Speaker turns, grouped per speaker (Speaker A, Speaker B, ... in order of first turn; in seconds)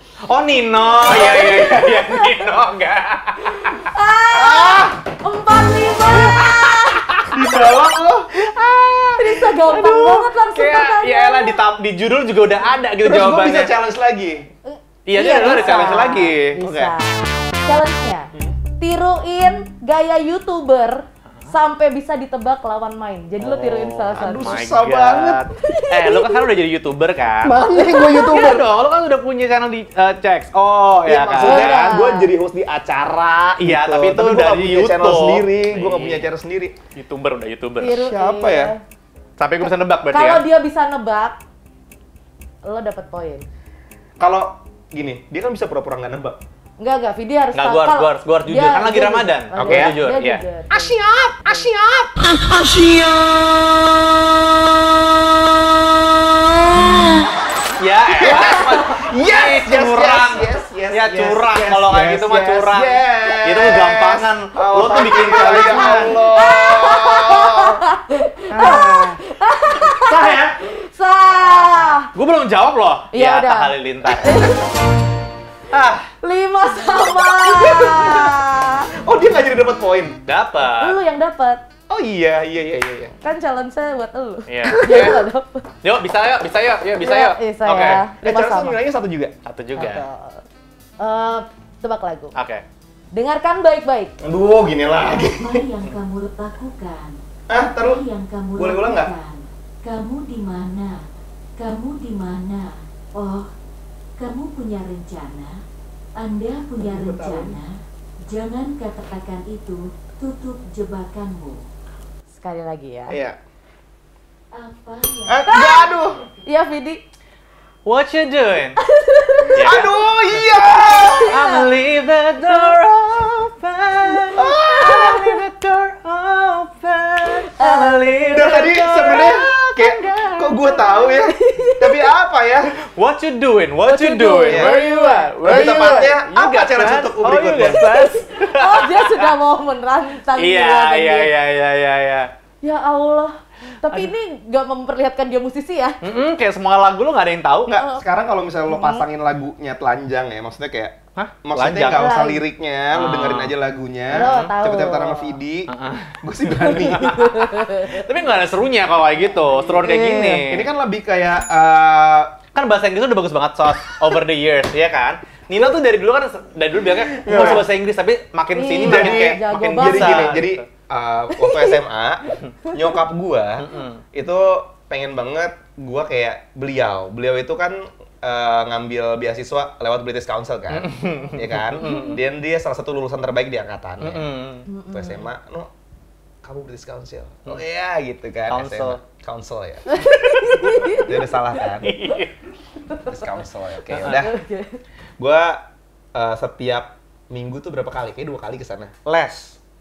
Speaker A: 0.3-3.9, 6.2-6.5, 8.5-13.8, 15.1-16.9, 23.4-32.0, 33.6-36.3, 37.0-38.1, 39.4-40.4, 47.5-52.1, 57.8-66.2, 68.5-69.2, 72.1-74.5, 75.7-76.1, 80.3-81.0, 84.5-85.2, 85.8-88.0, 89.5-90.0, 92.3-92.6, 117.8-118.8, 119.5-130.8, 132.8-139.3, 140.3-142.3, 146.0-147.8, 151.2-152.1, 152.9-153.5, 154.1-154.5, 155.7-160.7, 162.6-170.7, 173.6-174.0, 180.7-182.2, 184.0-184.7, 188.5-189.0, 190.0-190.7, 191.8-192.3, 193.9-194.3, 199.1-199.6
Speaker B: 1.1-2.3, 3.5-7.3, 9.2-11.6, 14.7-24.6, 25.6-26.5, 27.7-28.5, 31.4-32.3, 37.8-38.8, 39.6-41.4, 42.6-43.5, 46.8-51.7, 58.2-58.9, 65.2-72.1, 73.1-74.7, 76.2-78.9, 80.7-81.6, 83.2-85.7, 87.0-88.8, 89.8-90.4, 91.0-92.3, 93.1-94.2, 112.3-113.2, 115.5-115.9, 116.5-117.0, 118.8-119.6, 120.6-121.7, 122.5-122.7, 124.6-125.3, 127.5-129.1, 131.0-131.9, 133.9-136.1, 137.8-141.3, 142.6-146.0, 147.7-148.0, 148.7-149.1, 151.9-152.4, 154.1-155.4, 157.0-158.1, 159.4-160.5, 168.6-170.4, 171.3-171.8, 181.8-182.2, 184.7-185.2, 189.9-191.2, 192.9-193.3, 194.1-194.8
Speaker C: 1.1-1.6, 4.3-5.0, 7.3-8.3, 13.0-14.5, 24.1-25.4, 27.4-28.7, 31.1-36.8, 38.0-38.7, 44.2-46.4, 49.6-50.0, 52.4-55.3, 55.8-57.1, 58.1-67.8, 69.8-70.6, 77.4-78.4, 79.0-80.2, 81.9-83.1, 84.6-85.2, 88.2-89.3, 94.2-95.7, 97.5-98.0, 98.5-99.1, 106.8-107.6, 113.1-113.4, 115.3-116.2, 119.6-121.4, 124.3-125.3, 128.3-132.7, 134.5-134.8, 135.4-137.9, 147.7-157.4, 160.4-162.4, 167.1-167.7, 168.8-184.3, 184.9-185.7, 186.4-190.0, 190.9-191.9, 193.1-194.3, 195.2-198.9
Speaker D: 95.1-97.2, 97.7-101.1, 101.6-103.5, 104.2-105.6, 106.2-107.8, 108.3-111.6, 114.5-115.6